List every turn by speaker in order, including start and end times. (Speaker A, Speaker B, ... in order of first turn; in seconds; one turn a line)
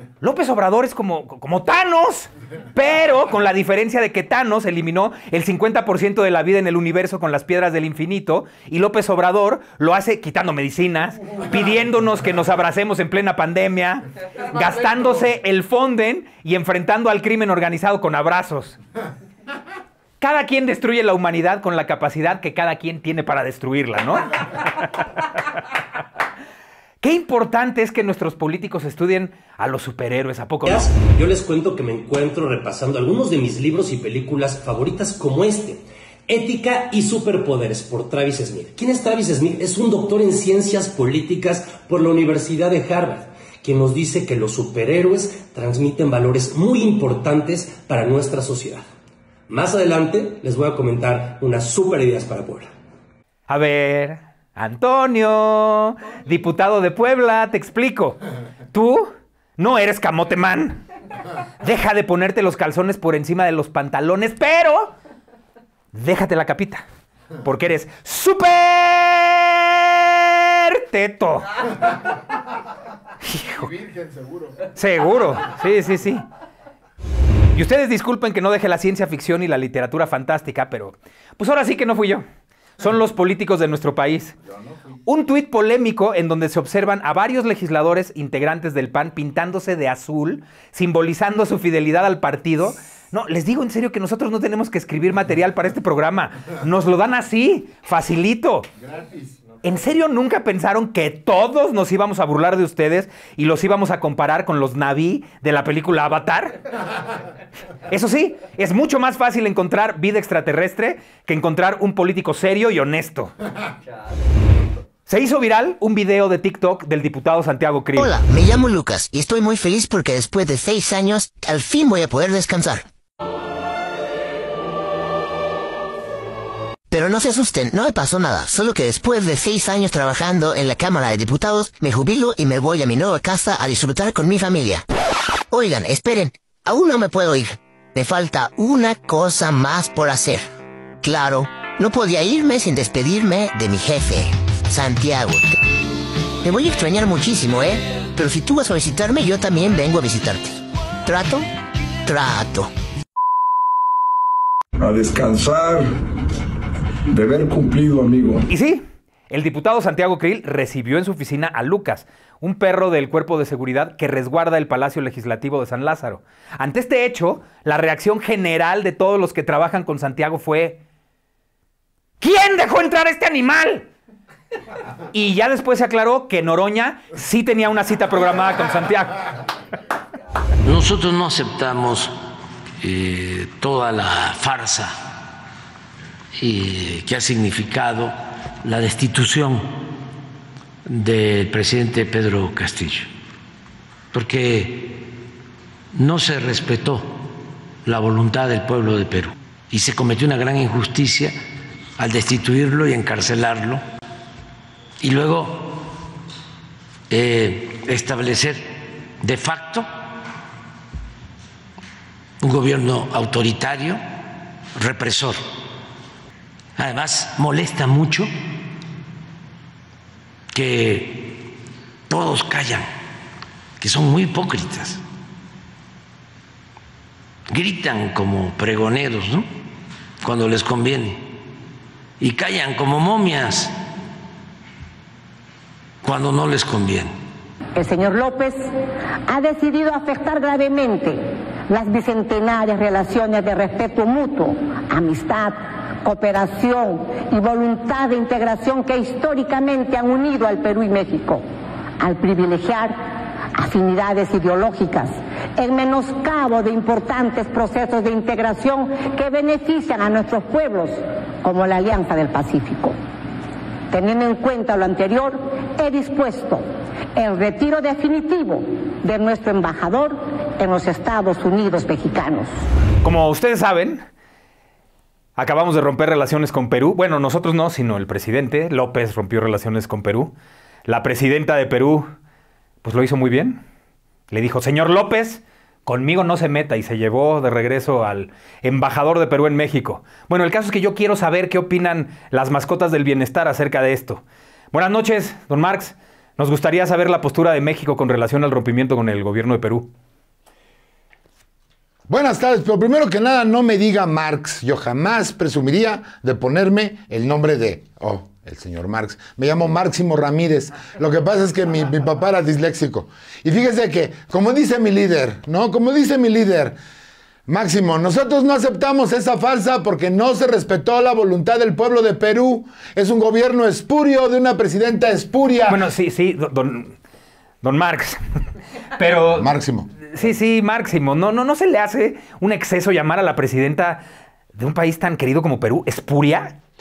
Speaker A: 0.2-18.8
Speaker B: 14.6-15.2
Speaker A: 20.2-24.4
Speaker A: 27.0-30.9
Speaker C: 30.6-48.8
Speaker C: 49.5-52.7
Speaker A: 53.5-58.2
Speaker A: 58.7-60.8
Speaker A: 61.6-64.9
Speaker A: 65.9-66.8
Speaker A: 67.4-71.5
Speaker A: 73.2-73.7
Speaker B: 73.5-74.7
Speaker A: 74.8-76.2
Speaker A: 77.5-82.2
Speaker A: 82.8-84.3
Speaker A: 85.0-98.7
Speaker B: 98.8-99.3
Speaker A: 99.6-106.6
Speaker A: 107.9-113.3
Speaker A: 115.1-118.1
Speaker D: 118.0-122.8
Speaker D: 126.9-134.8
Speaker D: 135.5-140.4
Speaker D: 141.0-145.5
Speaker D: 146.4-151.4
Speaker D: 152.0-152.7
Speaker E: 154.8-155.9
Speaker E: 157.1-158.4
Speaker A: 158.5-170.8
Speaker A: 172.2-173.9
Speaker A: 175.1-179.2
Speaker F: 180.6-182.1
Speaker F: 182.8-185.0
Speaker F: 186.4-189.7
Speaker F: 190.9-193.1
Speaker F: 194.1-194.9
Speaker F: 195.9-197.1
Speaker F: 197.8-201.4
Speaker F: 202.0-203.8
Speaker F: 205.0-205.8
Speaker F: 207.1-208.7
Speaker F: 209.2-209.9
Speaker F: 212.4-214.0
Speaker F: 214.8-215.4
Speaker F: 216.8-218.3
Speaker F: 220.5-221.4
Speaker F: 222.1-222.9
Speaker F: 223.8-225.0
Speaker F: 227.5-229.5
Speaker F: 230.2-231.3
Speaker F: 232.2-233.7
Speaker F: 236.0-237.1
Speaker G: 237.8-238.7
Speaker G: 239.3-251.4
Speaker G: 252.0-253.0
Speaker G: 253.5-263.0
Speaker G: 263.9-272.5
Speaker A: 273.0-274.1
Speaker A: 275.4-280.3
Speaker A: 280.9-282.1
Speaker A: 282.8-283.6
Speaker A: 284.3-299.9
Speaker H: 302.1-316.8
Speaker H: 317.5-325.8
Speaker A: 325.7-326.9
Speaker A: 327.6-328.2
Speaker A: 328.9-329.5
Speaker H: 329.3-329.9
Speaker A: 330.1-334.0
Speaker A: 334.5-336.6